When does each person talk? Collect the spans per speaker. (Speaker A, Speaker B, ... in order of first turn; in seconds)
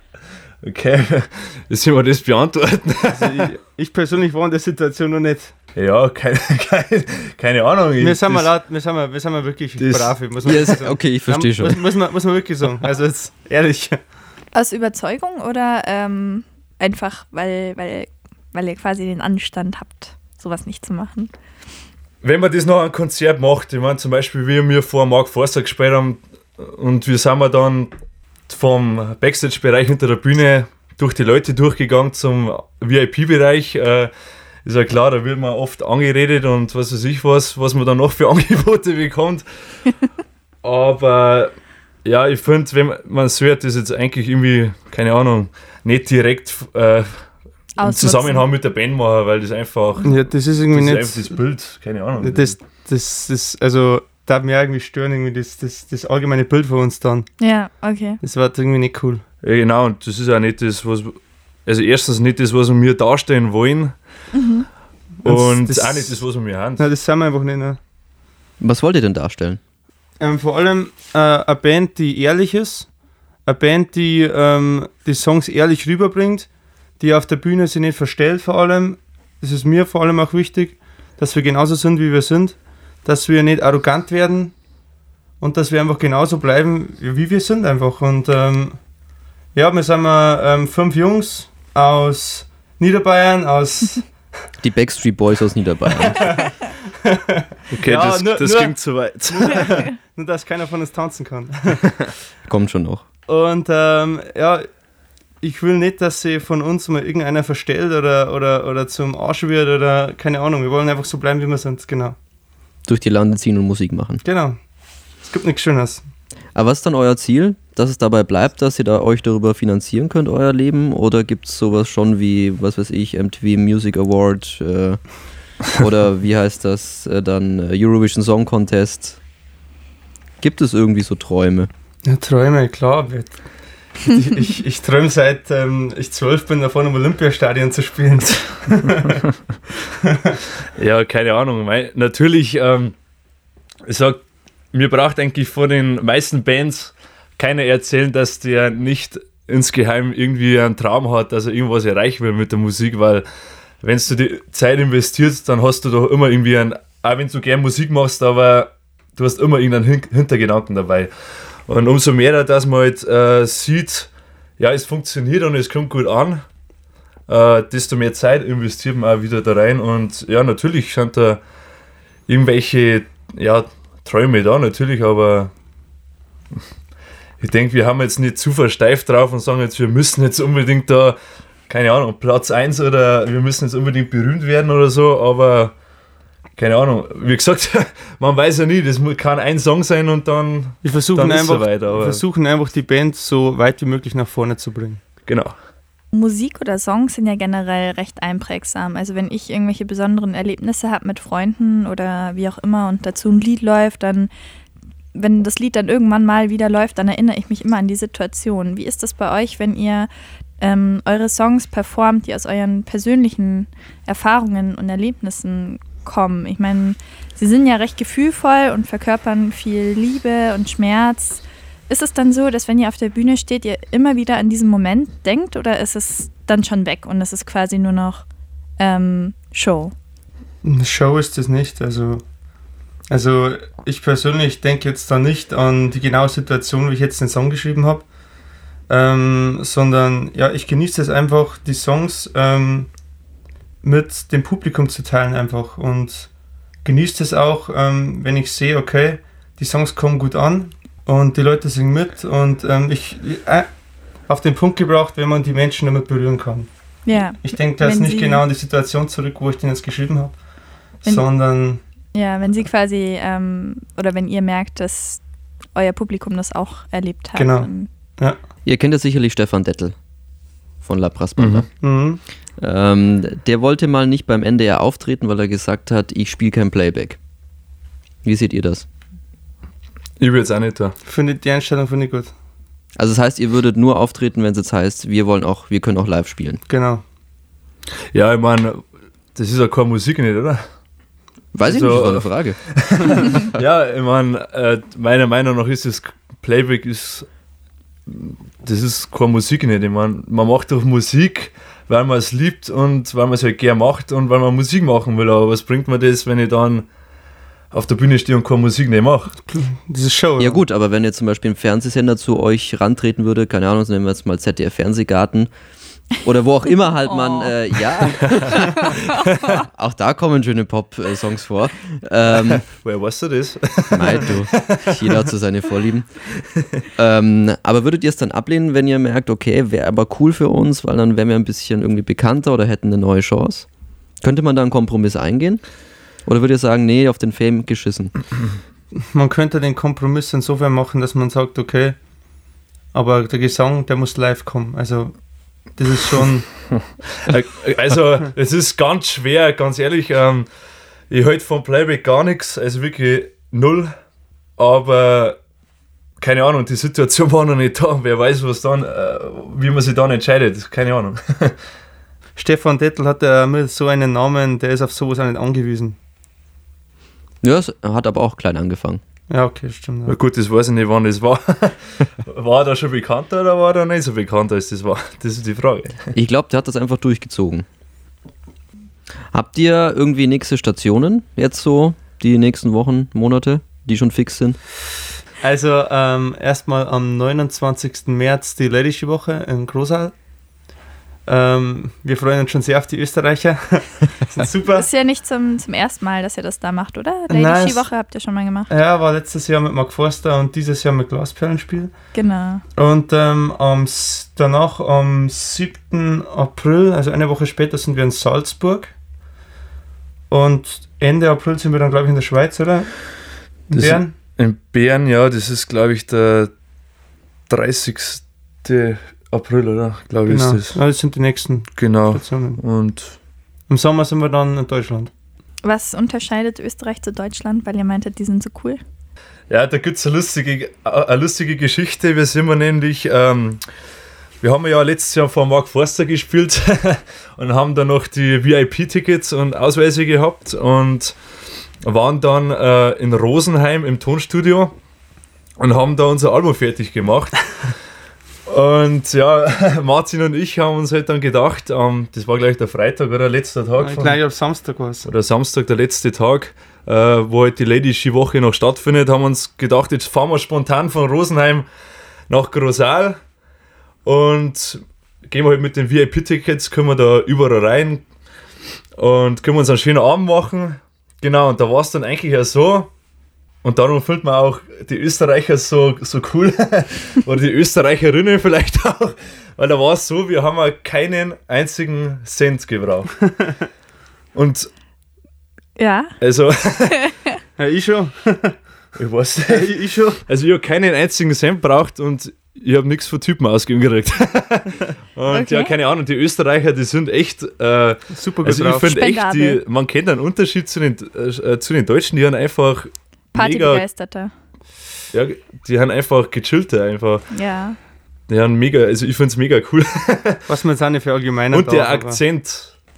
Speaker A: 0.6-3.4, 5.7-8.4, 9.8-10.1, 22.2-27.9, 28.5-34.1, 34.6-39.4, 40.6-41.5, 42.0-47.3, 47.8-52.5, 59.4-63.9, 65.2-66.9, 97.7-99.8, 140.8-142.9, 143.8-144.2, 144.7-153.2, 153.8-161.1, 161.7-166.4, 167.3-171.4, 172.3-175.5, 177.4-181.2, 181.7-185.7, 186.6-192.2, 195.3-195.5, 271.4-271.6, 280.2-280.9, 288.1-290.6, 291.6-297.3, 298.1-306.9, 307.7-309.4, 319.2-319.5, 322.6-325.1, 347.2-350.5, 351.1-353.9, 354.6-355.4, 356.2-361.6, 370.1-376.1, 413.7-416.5, 417.5-420.8, 421.8-423.1, 429.5-433.6, 434.4-441.2, 441.8-444.7, 445.6-447.7, 448.5-454.2, 455.0-461.6, 462.3-463.2, 464.0-468.0, 469.0-472.9, 473.6-483.2, 484.3-484.7, 486.2-487.1, 488.9-489.7, 490.2-503.8, 505.1-507.3, 508.3-510.4, 511.5-512.7
Speaker B: 3.1-5.5, 8.0-14.0, 50.0-51.4, 52.2-57.3, 58.2-59.2, 65.2-66.2, 66.8-67.8, 70.2-72.9, 73.5-76.5, 77.0-84.5, 85.4-88.8, 89.5-94.1, 96.1-101.8, 103.3-104.7, 105.4-112.2, 114.2-114.6, 115.2-116.0, 132.0-133.3, 134.0-139.2, 140.0-140.4, 190.8-195.0, 230.6-232.2, 233.1-238.1, 238.9-242.9, 243.8-246.3, 246.8-253.7, 254.3-260.4, 261.0-261.8, 267.4-268.4, 271.8-272.2, 281.0-282.3, 286.7-287.0, 309.4-310.6, 338.9-342.0, 342.9-345.2, 345.7-346.7, 362.4-365.9, 369.3-370.1, 385.4-390.1, 391.2-394.9, 397.3-397.9, 398.7-401.9, 402.8-408.9, 410.3-414.1, 420.3-422.6, 423.7-425.1, 453.8-455.1, 487.6-488.6, 489.5-490.2, 498.1-498.9, 510.5-512.2
Speaker C: 10.4-11.8, 68.6-69.6, 94.6-96.3, 102.5-103.0, 112.8-114.2, 116.5-129.2, 130.4-131.7, 268.6-269.9, 270.8-271.7, 272.6-277.2, 278.2-278.9, 282.9-286.6, 291.5-292.6, 310.4-315.5, 316.1-318.7, 319.7-322.6, 323.9-326.3, 326.9-333.7, 334.2-335.6, 336.2-338.2, 367.4-369.0, 376.1-377.6, 379.3-384.6
Speaker D: 14.5-21.3, 47.8-48.5, 57.4-58.2, 64.3-64.7, 196.1-204.3, 205.1-210.1, 210.6-228.2, 228.8-229.9, 257.0-258.4, 262.1-265.2, 265.7-267.9, 317.1-319.5, 394.7-398.7, 402.1-402.6, 425.6-428.8, 485.8-486.1, 487.0-487.3, 495.3-495.7, 498.8-499.6, 503.3-504.3, 507.3-507.8